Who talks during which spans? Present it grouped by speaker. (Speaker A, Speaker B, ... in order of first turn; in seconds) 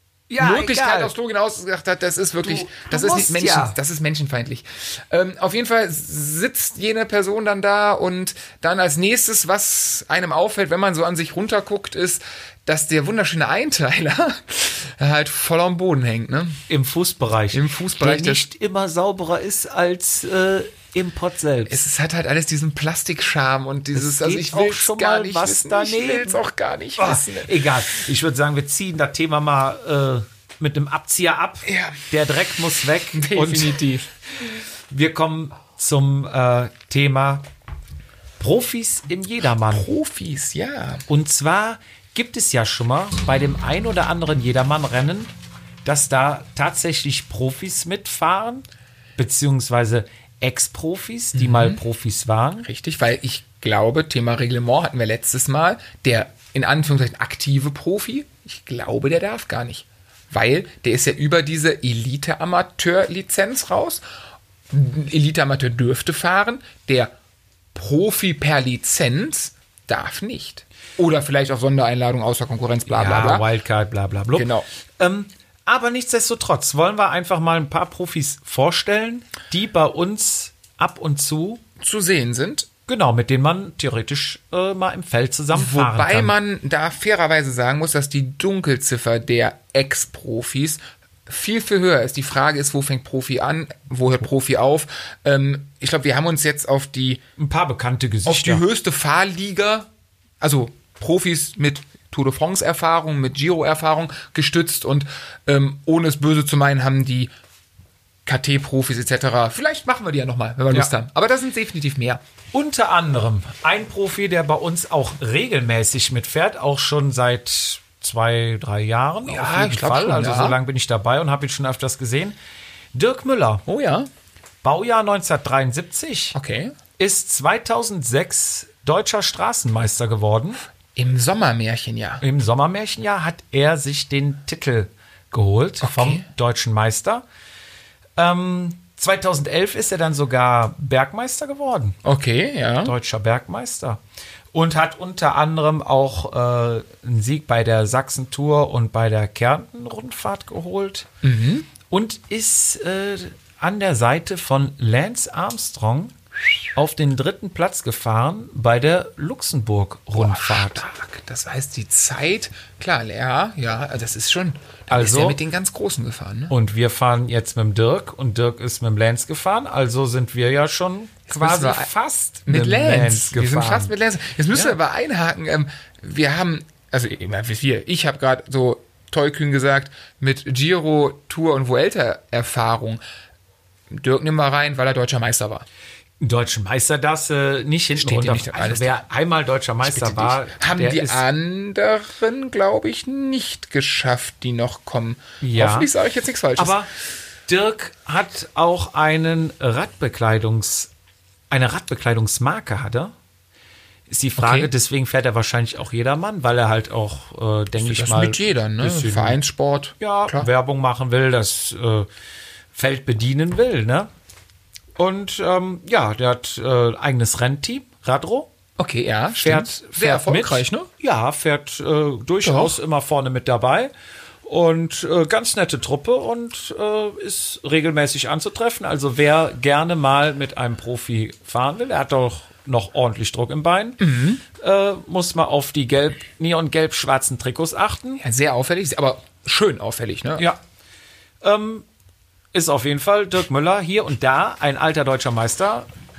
Speaker A: 0.3-1.1, 2.4-3.8, 16.7-21.8, 23.9-26.4, 27.0-33.8, 34.9-37.4, 38.4-39.9, 41.1-45.3, 45.8-48.6, 49.2-52.7, 72.9-81.6, 82.9-86.3, 97.4-98.6, 112.5-122.3, 122.9-123.6, 124.6-126.3, 127.0-130.6, 132.2-137.2, 138.2-142.0, 142.8-144.0, 144.5-151.1, 151.9-156.1, 156.7-160.8, 164.9-165.4, 166.5-173.9, 186.2-191.2, 195.4-195.9, 196.6-196.9, 197.5-200.9, 201.5-203.1, 204.1-209.4, 210.0-212.1, 212.7-214.1, 214.9-218.5, 219.4-223.9, 224.4-234.0, 234.5-238.2, 241.4-241.8, 242.5-245.9
Speaker B: 0.4-16.6, 17.5-18.4, 21.6-27.5, 31.6-32.0, 33.1-34.1, 39.7-41.0, 51.3-51.8, 52.6-64.0, 64.7-67.1, 67.7-73.5, 74.3-74.7, 81.8-82.7, 85.5-97.2, 98.2-99.9, 100.4-107.3, 108.2-112.2, 119.2-120.6, 123.7-124.1, 126.3-126.7, 130.9-132.2, 135.8-136.3, 142.0-142.9, 151.2-151.7, 160.1-166.5, 171.3-183.0, 183.9-185.6, 187.9-189.0, 189.8-196.8, 204.4-204.7, 207.8-210.5, 218.8-220.9, 222.4-222.8, 234.0-234.4, 238.2-240.5